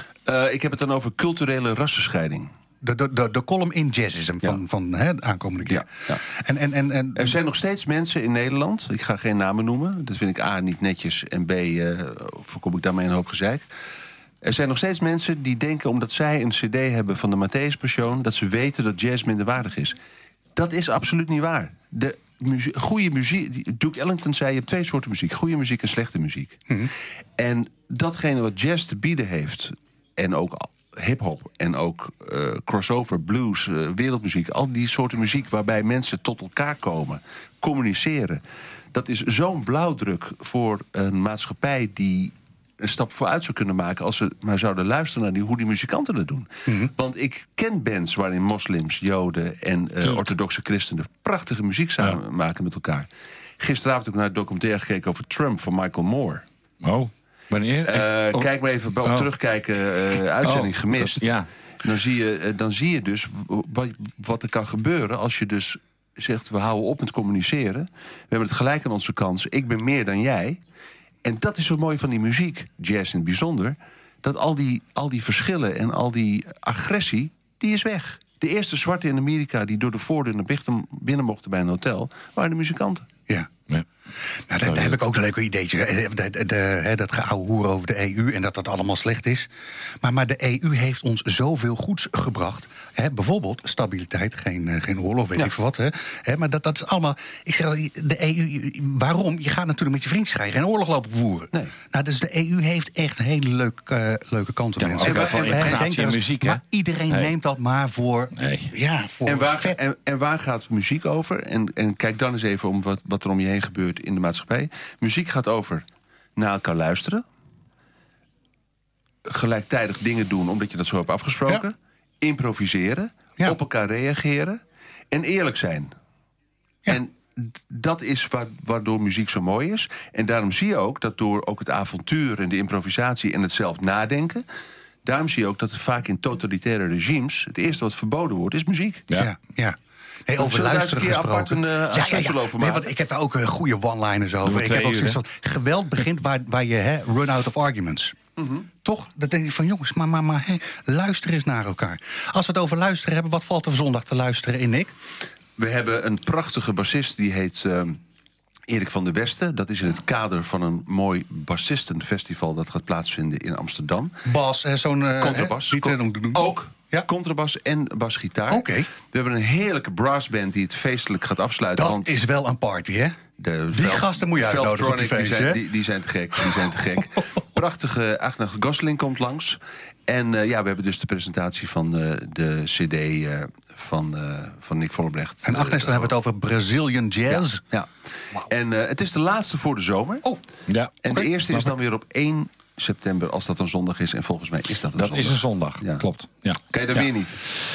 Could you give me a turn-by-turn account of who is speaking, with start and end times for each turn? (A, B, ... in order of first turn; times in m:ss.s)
0:00.3-0:02.5 A
0:02.8-0:07.4 B
0:05.7-0:06.2 A
0:07.2-0:13.6 A
0:14.4-0:20.0 A
0:20.6-0:26.8 A
0:27.4-0:38.4 A
0:38.9-0:53.1 A
0:53.6-0:56.4 A
0:56.8-0:58.5 C
0:57.9-1:01.3 A
1:00.4-1:01.5 C
1:01.8-1:10.6 A
1:11.2-1:23.1 A
1:24.5-1:29.5 B
1:24.6-1:25.0 C
1:30.0-1:49.8 B
1:44.8-1:47.3 C
1:45.0-1:45.8 A
1:48.4-1:48.7 C
1:49.2-1:55.8 A
1:56.4-1:57.2 A
1:59.3-2:04.6 A
2:05.1-2:05.9 A
2:06.9-2:14.4 A
2:15.0-2:19.1 A
2:19.2-2:28.2 B
2:20.4-2:22.9 A
2:24.4-2:25.2 C
2:28.4-2:28.7 A
2:28.8-2:34.9 B
2:35.6-2:38.0 A
2:38.7-2:44.2 A
2:44.3-2:47.1 B
2:45.2-2:52.2 A
2:48.5-2:48.9 B
2:51.8-2:53.2 B
2:53.4-3:06.1 A
2:53.7-2:55.6 B
3:05.4-3:07.6 B
3:07.3-3:10.3 A
3:11.0-3:16.0 A
3:15.0-3:17.1 C
3:16.7-3:17.4 A